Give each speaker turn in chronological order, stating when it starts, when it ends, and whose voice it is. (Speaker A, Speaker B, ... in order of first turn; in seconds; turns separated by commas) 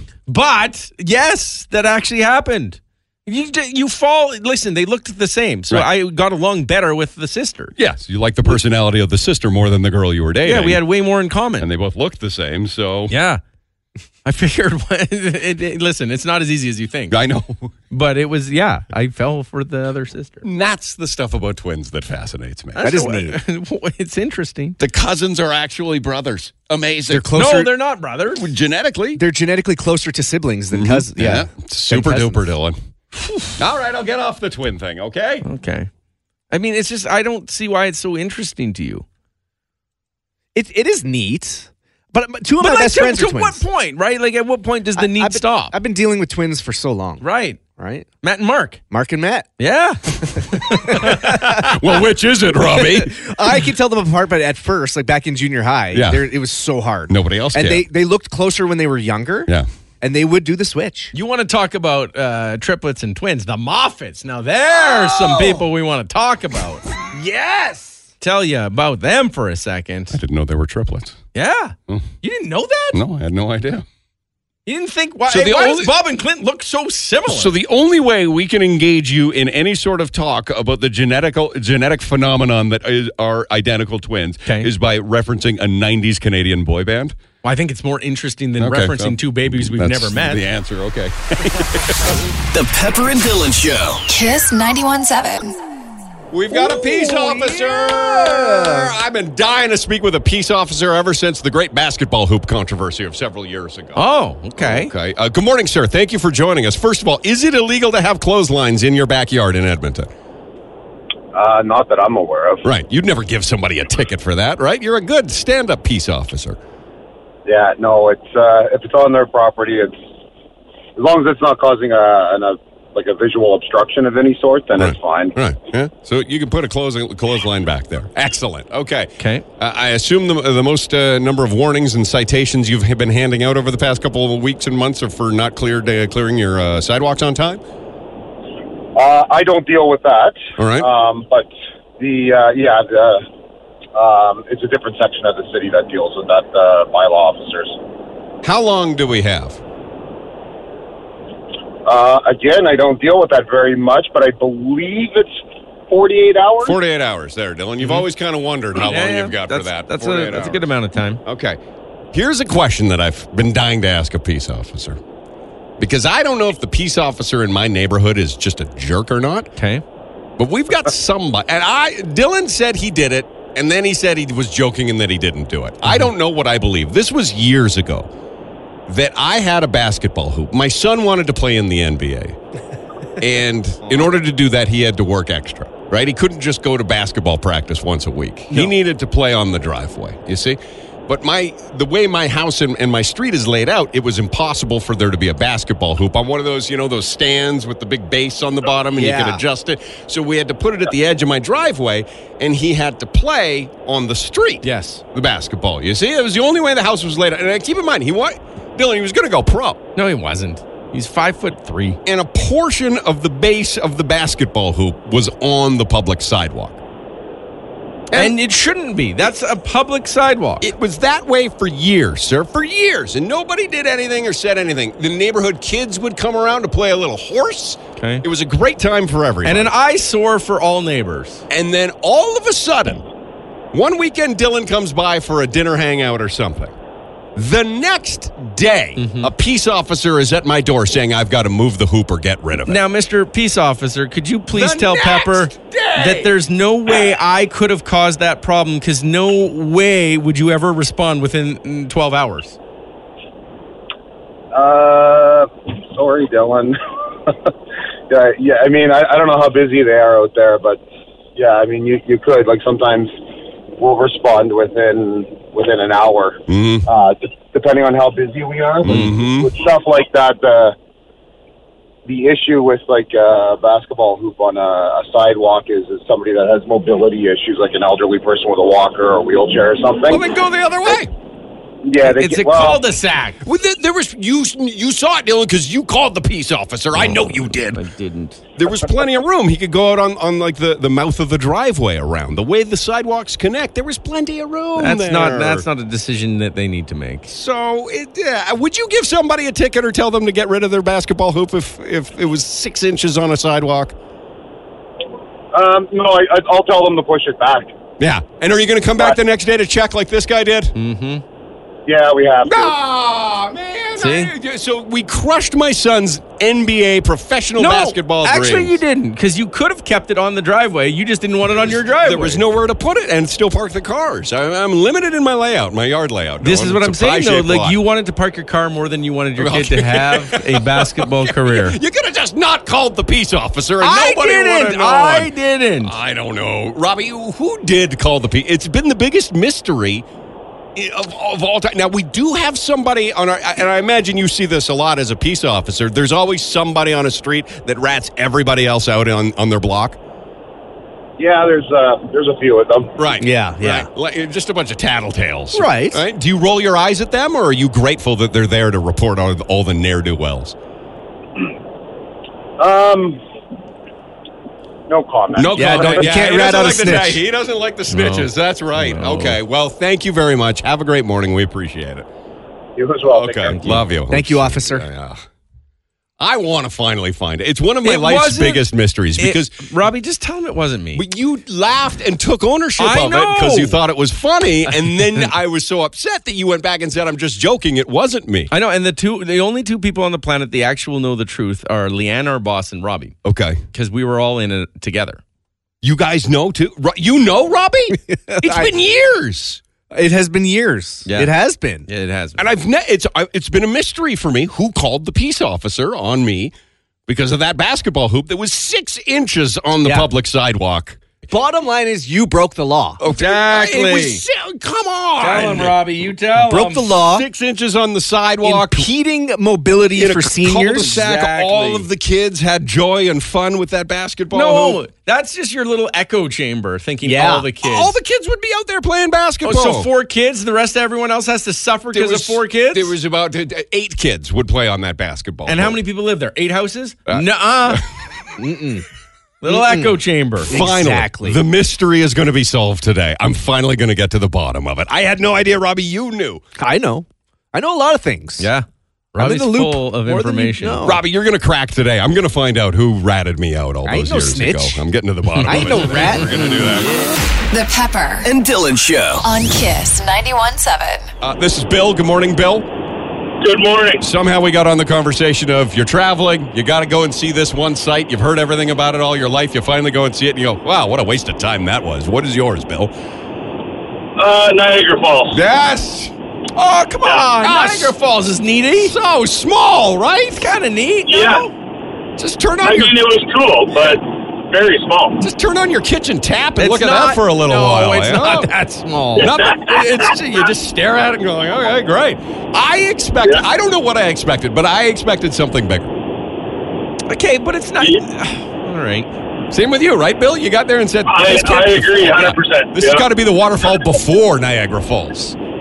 Speaker A: 0.3-7.7, Speaker B: 7.8-10.8, Speaker A: 10.4-11.7, Speaker B: 11.6-13.1, Speaker A: 13.1-13.4, Speaker A: 14.2-17.2, Speaker B: 17.1-17.7, Speaker A: 17.9-20.4, Speaker B: 20.4-22.9, Speaker A: 22.8-24.8, Speaker C: 22.8-23.4, Speaker B: 24.8-27.4, Speaker C: 27.1-27.7, Speaker A: 27.3-28.4, Speaker B: 28.3-29.2, Speaker C: 29.1-32.4, Speaker B: 30.7-32.8, Speaker B: 33.6-35.4, Speaker A: 35.4-35.9, Speaker A: 36.5-39.0, Speaker C: 40.5-43.6, Speaker A: 42.6-45.7, Speaker C: 45.0-48.1, Speaker A: 47.2-47.6, Speaker A: 48.2-48.8, Speaker C: 48.9-49.5, Speaker A: 49.6-51.5, Speaker C: 50.3-51.9, Speaker B: 51.4-53.2, Speaker C: 52.5-61.1, Speaker B: 55.9-56.2, Speaker B: 57.1-57.8, Speaker A: 61.1-66.8, Speaker B: 64.8-65.6, Speaker B: 67.1-67.9, Speaker A: 68.2-70.2, Speaker B: 70.1-71.2, Speaker A: 71.3-73.0, Speaker B: 72.9-73.8, Speaker A: 74.7-77.5, Speaker B: 75.3-75.9, Speaker B: 77.2-87.1, Speaker A: 87.4-90.4, Speaker B: 88.6-92.2, Speaker D: 92.5-94.0, Speaker E: 94.1-95.5, Speaker B: 96.3-104.0, Speaker C: 96.5-98.9, Speaker A: 103.9-104.9, Speaker B: 104.6-110.1, Speaker F: 111.3-112.6, Speaker B: 112.6-116.6, Speaker F: 117.5-120.0, Speaker F: 121.0-125.3, Speaker B: 124.8-137.6, Speaker A: 129.2-129.4, Speaker F: 138.9-143.2, Speaker B: 140.6-140.9, Speaker F: 143.9-147.8, Speaker B: 148.4-149.6, Speaker F: 151.8-155.3, Speaker F: 155.9-156.8, Speaker B: 156.6-160.6, Speaker A: 158.8-161.2, Speaker B: 161.2-161.6, Speaker B: 162.1-165.0, Speaker B: 165.8-169.5, Speaker A: 169.6-169.8, Speaker B: 170.4-178.1, Speaker B: 178.9-182.3, Speaker B: 183.2-209.8, Speaker C: 198.9-199.4, Speaker A: 204.6-205.0, Speaker A: 209.9-212.0, Speaker B: 212.1-216.8, Speaker A: 218.1-220.7, Speaker B: 220.6-229.7, Speaker A: 228.0-228.2, Speaker A: 229.4-231.4, Speaker B: 231.5-233.0, Speaker B: 233.7-236.7, Speaker B: 237.3-242.8, Speaker A: 239.0-239.3, Speaker A: 242.7-252.6, Speaker B: 244.5-246.3, Speaker F: 254.5-256.8, Speaker F: 258.1-260.8, Speaker F: 261.4-263.1, Speaker F: 263.8-270.7, Speaker B: 266.5-266.9, Speaker B: 268.8-269.5, Speaker F: 272.1-280.2, Speaker B: 280.1-281.1, Speaker F: 281.8-282.8, Speaker A: 282.0-283.4, Speaker B: 283.4-287.8, Speaker A: 286.9-288.4, Speaker B: 288.6-295.6, Speaker A: 294.8-297.3, Speaker B: 297.3-303.9, Speaker F: 305.5-307.7, Speaker B: 308.0-310.7, Speaker A: 310.7-311.2, Speaker F: 311.9-312.8, Speaker B: 312.4-318.8, Speaker A: 314.0-314.3, Speaker A: 317.6-322.4, Speaker B: 321.6-327.8, Speaker A: 326.4-331.8, Speaker B: 329.4-335.3, Speaker A: 333.8-335.9, Speaker B: 335.8-340.1, Speaker B: 340.8-350.0, Speaker F: 351.2-352.9, Speaker B: 353.0-360.5, Speaker C: 353.2-353.9, Speaker C: 355.5-356.0, Speaker F: 362.6-363.2, Speaker F: 364.9-366.2, Speaker B: 365.4-372.1, Speaker C: 365.5-367.2, Speaker A: 367.9-369.4, Speaker F: 372.8-373.6, Speaker B: 373.1-375.2, Speaker A: 373.5-373.8, Speaker C: 374.1-374.9, Speaker B: 376.2-379.6, Speaker A: 377.8-378.7, Speaker A: 379.2-381.0, Speaker B: 380.9-388.5, Speaker A: 382.8-383.8, Speaker A: 384.7-385.3, Speaker A: 388.5-393.1, Speaker B: 393.2-393.6, Speaker A: 393.7-395.2, Speaker B: 395.8-399.6, Speaker C: 398.1-398.7, Speaker C: 399.9-401.9, Speaker A: 401.1-401.3, Speaker A: 401.9-402.4, Speaker B: 402.4-406.5, Speaker B: 407.1-411.0, Speaker C: 409.8-410.1, Speaker C: 411.3-413.0, Speaker B: 413.0-415.8, Speaker A: 413.1-414.2, Speaker A: 415.2-416.9, Speaker C: 416.3-417.3, Speaker B: 417.1-418.9, Speaker C: 418.4-421.0, Speaker B: 419.9-424.8, Speaker A: 420.8-421.9, Speaker A: 424.3-427.9, Speaker C: 427.0-427.5, Speaker B: 427.6-429.9, Speaker A: 429.4-432.9, Speaker B: 431.9-435.8, Speaker A: 435.4-437.8, Speaker B: 437.1-437.8, Speaker C: 438.4-438.9, Speaker A: 439.4-440.5, Speaker C: 439.4-440.0, Speaker C: 440.5-441.4, Speaker B: 440.5-446.4, Speaker C: 446.6-448.5, Speaker A: 448.4-450.9, Speaker C: 449.1-451.0, Speaker B: 450.8-456.9, Speaker C: 453.8-454.8, Speaker A: 455.4-456.5, Speaker C: 455.4-456.4, Speaker E: 457.5-458.3, Speaker D: 458.2-459.3, Speaker E: 459.2-461.1, Speaker B: 461.2-462.7, Speaker G: 463.4-464.1, Speaker B: 464.0-472.9, Speaker G: 474.2-475.4, Speaker B: 475.3-476.1, Speaker A: 476.6-478.9, Speaker B: 477.1-477.9, Speaker B: 478.8-480.6, Speaker A: 480.4-481.5, Speaker G: 481.1-481.4, Speaker B: 482.2-482.9, Speaker G: 482.6-485.2, Speaker B: 485.2-488.5, Speaker A: 486.6-489.3, Speaker G: 489.2-490.2, Speaker B: 489.2-495.9, Speaker A: 497.1-499.1, Speaker B: 499.5-505.4, Speaker G: 501.1-503.1